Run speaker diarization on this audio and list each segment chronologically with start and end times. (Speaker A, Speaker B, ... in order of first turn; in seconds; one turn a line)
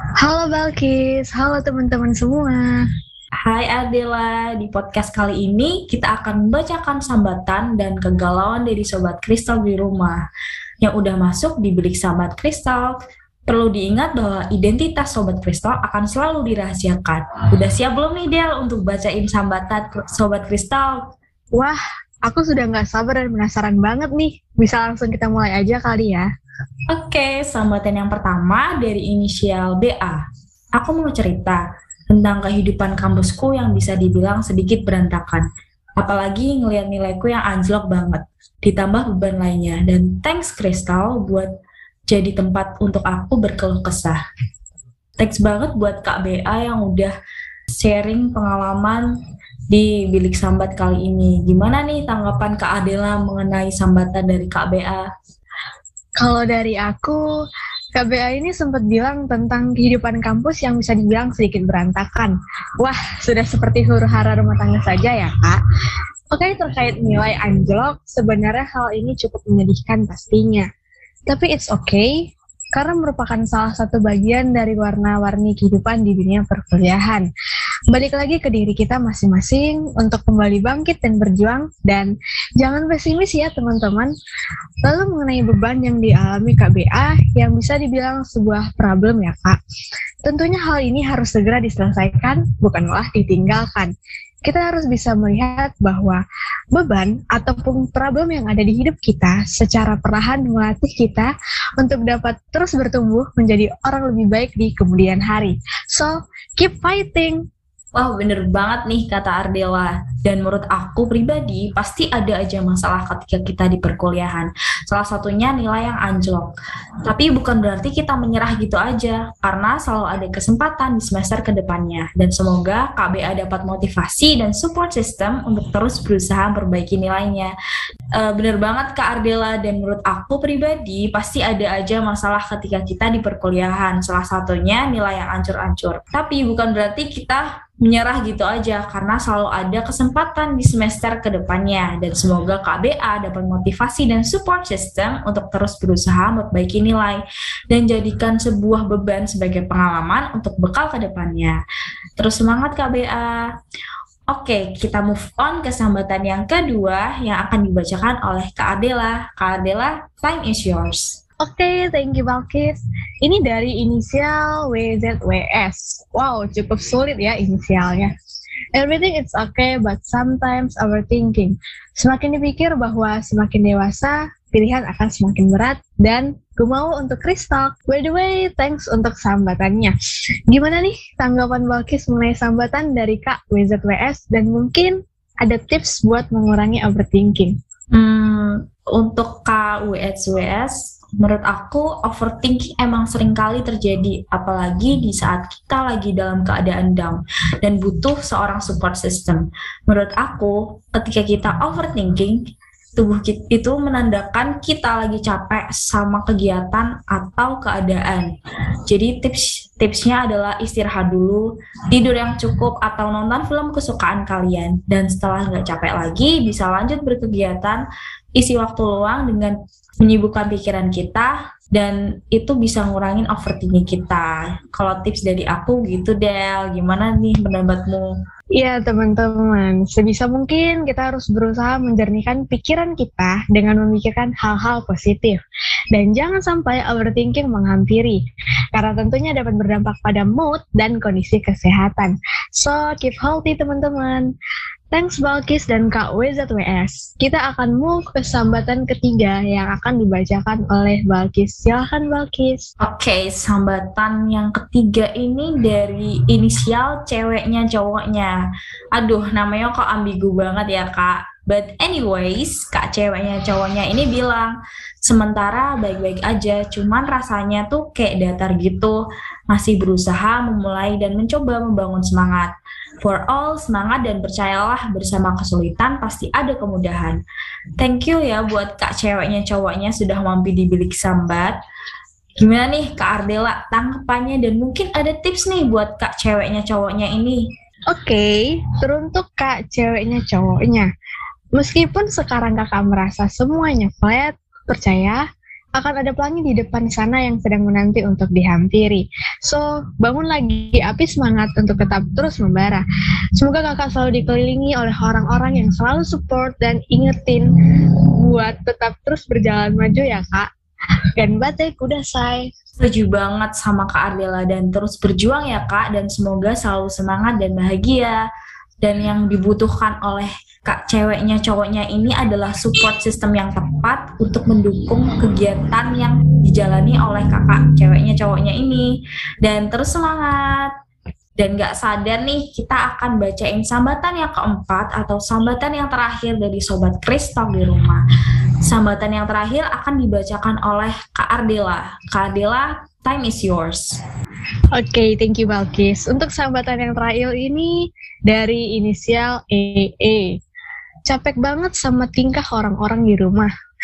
Speaker A: 0.2-2.8
Speaker B: 3.4-10.2
Speaker B: 10.8-21.0
Speaker A: 21.6-26.3
Speaker B: 26.9-30.2
Speaker B: 30.8-35.5
Speaker B: 36.0-41.5
Speaker B: 42.1-44.2
Speaker B: 45.2-47.1
Speaker B: 47.8-49.0
Speaker B: 49.7-55.1
Speaker A: 56.2-57.2
Speaker A: 58.0-65.6
Speaker A: 66.3-70.7
Speaker A: 71.3-72.1
Speaker A: 72.7-77.3
Speaker A: 77.9-84.1
Speaker A: 84.8-89.6
Speaker A: 90.2-93.9
Speaker A: 94.5-107.4
Speaker B: 108.0-116.5
Speaker B: 117.0-127.5
Speaker B: 128.2-151.6
Speaker B: 152.2-153.5
Speaker B: 154.3-161.2
Speaker A: 161.4-168.1
Speaker A: 168.8-179.9
Speaker A: 180.5-187.6
Speaker B: 187.9-202.4
Speaker B: 203.0-208.3
Speaker B: 208.9-217.8
Speaker B: 218.4-228.1
Speaker A: 228.6-235.4
Speaker A: 235.9-244.3
Speaker A: 244.9-252.7
Speaker B: 252.8-258.4
Speaker B: 259.0-269.0
Speaker B: 269.5-272.5
Speaker B: 273.0-277.2
Speaker B: 277.8-281.6
Speaker B: 282.4-287.4
Speaker A: 287.9-290.9
Speaker A: 291.6-295.2
Speaker A: 295.8-302.8
Speaker A: 303.4-307.5
Speaker A: 308.2-310.5
Speaker A: 311.2-312.5
Speaker B: 312.8-318.2
Speaker B: 318.8-328.9
Speaker B: 329.4-330.7
Speaker B: 331.4-338.0
Speaker B: 338.6-344.0
Speaker A: 344.7-347.7
Speaker A: 348.3-350.3
Speaker A: 351.1-353.5